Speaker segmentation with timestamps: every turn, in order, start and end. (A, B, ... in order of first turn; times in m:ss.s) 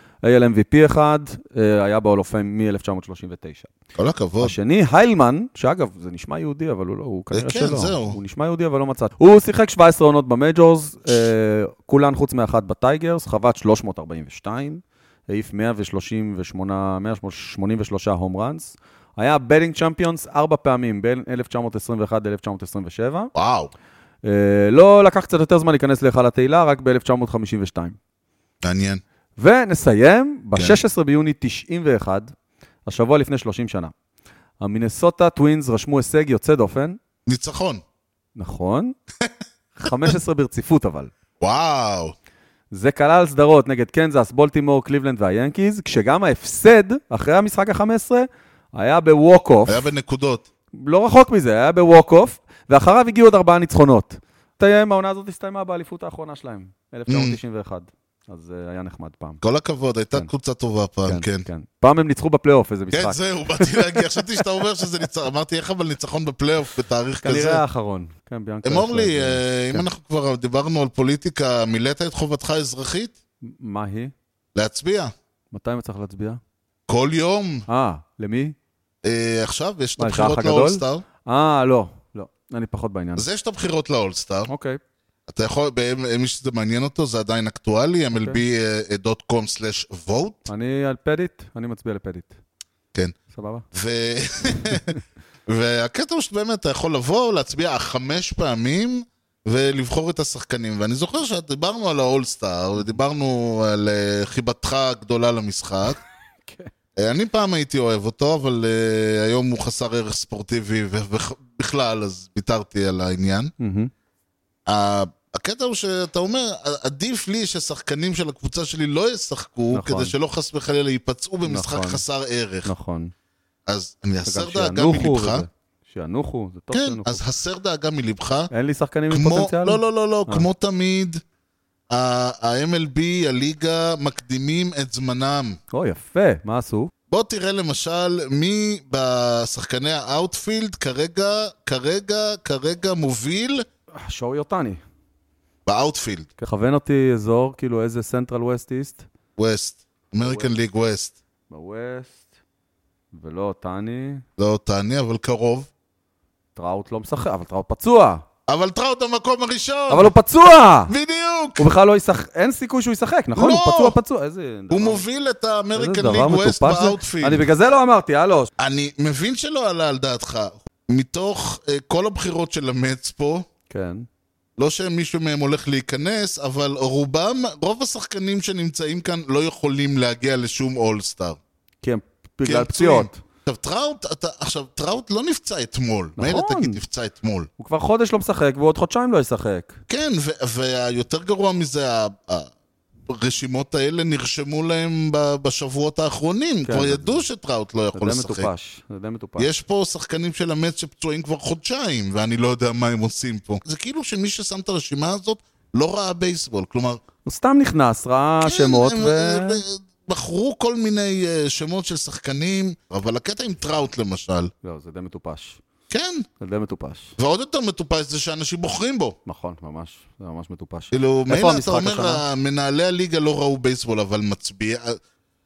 0:00.2-0:03.7 A
0:03.9-0:04.5 B
0:04.4-0:23.3 A
0:07.3-0:08.2 B
0:23.3-0:23.7 B
0:24.2-0:28.0 A
0:28.6-0:29.0 B
0:29.4-0:32.3 A
0:32.8-0:33.9 A
0:34.6-0:37.0 A
0:37.2-0:37.8 B
0:38.4-0:38.9 A
0:39.7-0:41.1 A
0:41.4-0:42.1 B
0:42.7-0:49.8 A
0:49.7-0:50.4 B
0:50.7-0:59.4 A
0:57.1-0:57.4 B
0:59.4-1:01.4 B
1:01.0-1:04.6 A
1:02.9-1:07.6 B
1:07.2-1:09.9 A
1:08.6-1:13.1 B
1:13.4-1:14.1 A
1:14.5-1:15.1 B
1:15.5-1:16.4 A
1:16.9-1:17.6 B
1:17.7-1:18.5 A
1:19.0-1:21.0 B
1:20.0-1:23.3 A
1:23.2-1:24.5 B
1:24.5-1:24.8 A
1:25.3-1:30.5 B
1:28.1-1:28.4 A
1:30.5-1:32.4 A
1:33.3-1:33.6 A
1:33.7-1:34.9 B
1:34.7-1:35.0 A
1:35.5-1:46.0 B
1:47.0-1:53.5 B
1:53.6-1:53.9 A
1:54.7-2:02.7 B
1:59.7-2:00.1 A
2:01.4-2:02.0 A
2:02.6-2:03.1 A
2:03.6-2:05.4 B
2:04.2-2:07.2 A
2:06.7-2:08.5 B
2:08.5-2:10.4 A
2:09.1-2:11.2 B
2:11.9-2:15.6 B
2:15.7-2:16.9 A
2:17.1-2:23.6 B
2:23.9-2:24.8 A
2:25.6-2:26.3 B
2:26.4-2:29.1 A
2:29.4-2:31.1 B
2:30.2-2:30.5 A
2:31.5-2:32.2 A
2:33.1-2:34.2 A
2:34.4-2:35.7 B
2:36.6-2:38.2 A
2:38.5-2:40.1 B
2:39.9-2:40.9 A
2:40.9-2:41.7 B
2:41.6-2:45.0 A
2:43.4-2:44.0 B
2:44.7-2:47.4 B
2:45.7-2:48.5 A
2:48.6-2:53.5 B
2:53.7-2:54.0 A
2:54.6-3:01.4 B
3:01.8-3:03.2 A
3:02.4-3:07.5 B
3:06.2-3:06.8 A
3:07.6-3:09.8 A
3:09.9-3:12.5 B
3:13.1-3:18.5 B
3:16.6-3:17.2 A
3:17.9-3:19.5 A
3:19.4-3:27.0 B
3:27.2-3:29.6 A
3:28.4-3:34.5 B
3:34.6-3:35.6 A
3:35.9-3:36.2 B
3:36.4-3:37.2 A
3:37.2-3:39.2 B
3:39.2-3:42.2 A
3:40.9-3:45.0 B